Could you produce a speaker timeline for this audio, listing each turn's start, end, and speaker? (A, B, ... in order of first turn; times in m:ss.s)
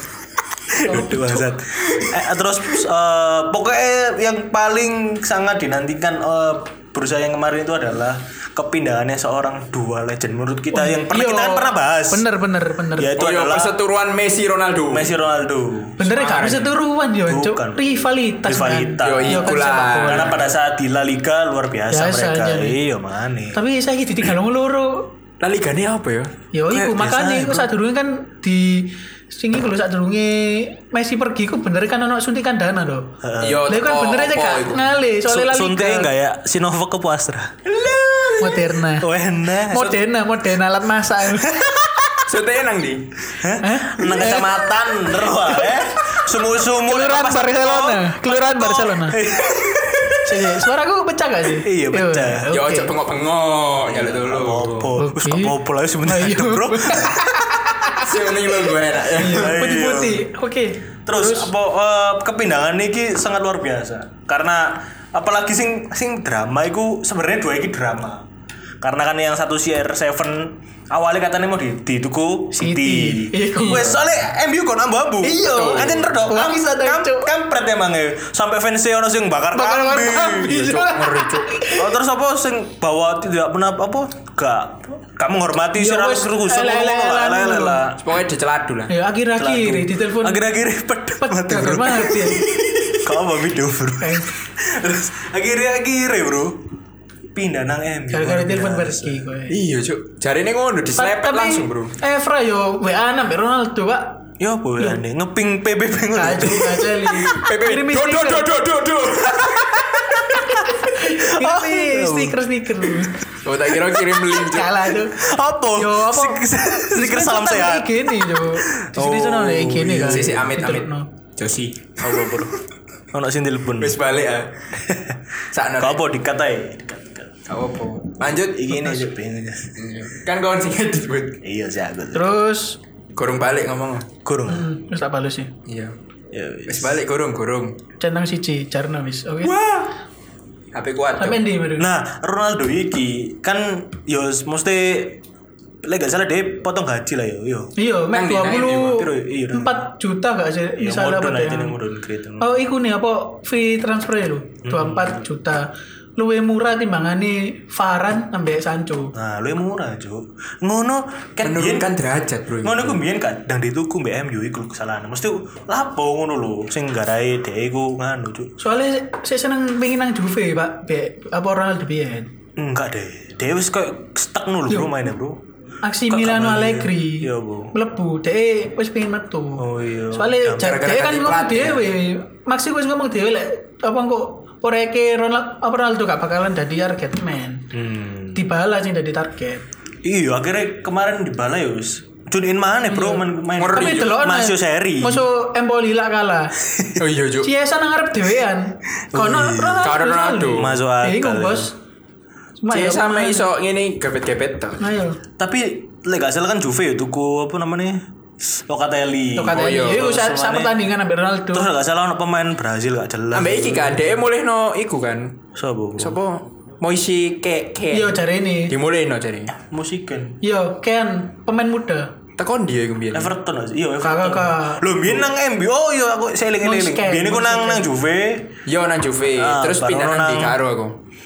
0:00.7-0:12.2 A
0:00.9-0:01.2 B
0:01.0-0:01.2 C
0:01.8-0:02.2 C
0:10.7-0:13.1 B
0:13.0-0:13.8 A
0:13.2-0:15.1 C
0:14.9-0:16.0 A
0:16.0-0:20.3 B
0:16.1-0:16.7 C
0:17.2-0:23.6 A
0:19.0-0:20.4 C
0:21.9-0:22.8 B
0:23.5-0:25.1 B
0:25.4-0:26.3 C
0:26.5-0:33.1 B
0:26.7-0:27.7 A
0:33.2-0:33.6 A
0:33.4-0:34.9 C
0:33.7-0:36.1 B
0:35.3-0:37.6 A
0:37.6-0:38.8 C
0:38.4-0:39.1 B
0:39.0-0:40.0 A
0:39.7-0:41.5 B
0:41.4-0:42.1 A
0:42.3-0:43.3 C
0:43.4-0:50.0 A
0:43.6-0:44.7 B
0:45.3-0:45.8 B
0:46.7-0:49.2 B
0:49.5-0:50.2 C
0:50.2-0:52.9 B
0:51.6-0:52.5 A
0:52.5-0:55.0 C
0:53.8-0:57.2 A
0:55.0-1:01.5 B
0:57.9-0:59.6 C
0:59.3-1:00.3 A
1:01.1-1:08.2 A
1:08.8-1:20.8 A
1:12.6-1:13.9 B
1:15.2-1:16.2 C
1:15.5-1:15.7 B
1:16.3-1:17.3 B
1:19.5-1:21.9 B
1:20.6-1:21.5 C
1:21.7-1:28.0 A
1:25.8-1:27.9 B
1:28.0-1:28.9 C
1:28.9-1:30.4 B
1:29.4-1:32.4 A
1:31.2-1:32.4 B
1:32.4-1:33.1 C
1:33.0-1:36.6 A
1:34.0-1:34.3 B
1:37.3-1:39.2 A
1:38.1-1:39.6 B
1:39.5-1:42.0 C
1:41.0-1:44.2 B
1:44.4-1:47.0 A
1:46.2-1:48.5 B
1:47.1-1:50.6 C
1:50.6-1:53.2 B
1:51.1-1:53.1 A
1:53.4-1:54.8 C
1:54.3-1:55.2 B
1:55.2-2:00.5 A
1:55.8-2:01.1 B
2:00.0-2:02.5 C
2:02.0-2:02.6 A
2:03.1-2:04.0 A
2:03.8-2:04.6 C
2:04.8-2:05.2 A
2:05.5-2:06.0 C
2:05.8-2:07.4 A
2:07.5-2:09.0 C
2:08.2-2:09.8 A
2:09.8-2:11.4 C
2:11.4-2:12.4 A
2:12.1-2:12.8 B
2:13.2-2:14.1 C
2:14.2-2:14.7 A
2:14.5-2:15.5 B
2:15.7-2:16.0 C
2:16.3-2:17.0 A
2:16.7-2:17.8 C
2:18.0-2:19.5 B
2:19.4-2:19.9 C
2:20.7-2:21.4 C
2:21.2-2:21.9 B
2:21.8-2:25.2 A
2:25.8-2:27.7 A
2:27.8-2:31.8 B
2:28.1-2:29.1 C
2:28.8-2:29.8 A
2:30.8-2:32.5 A
2:32.4-2:39.1 B
2:34.6-2:35.2 A
2:39.2-2:41.9 A
2:41.4-2:43.0 C
2:42.6-2:48.5 A
2:48.6-2:52.3 B
2:52.6-2:55.4 A
2:55.8-3:07.7 B
2:56.1-2:57.7 A
2:59.6-3:00.8 A
3:00.5-3:02.0 C
3:07.7-3:08.4 A
3:08.3-3:09.6 B
3:10.0-3:15.3 A
3:12.9-3:16.5 B
3:13.6-3:14.1 C
3:16.6-3:17.0 A
3:17.0-3:17.5 C
3:17.4-3:21.7 B
3:19.1-3:19.9 A
3:19.8-3:20.8 C
3:20.6-3:21.7 A
3:22.6-3:23.5 B
3:22.7-3:24.8 C
3:24.8-3:25.2 B
3:25.4-3:30.8 A
3:29.4-3:31.7 B
3:29.5-3:30.1 C
3:31.5-3:34.2 A
3:33.3-3:35.4 C
3:35.6-3:36.2 A
3:36.0-3:39.5 C
3:37.9-3:38.7 B
3:39.6-3:40.4 A
3:40.4-3:42.1 B
3:42.4-3:43.3 C
3:43.1-3:48.6 A
3:44.0-3:44.8 B
3:46.6-3:47.9 B
3:48.7-3:51.0 C
3:49.3-3:50.6 A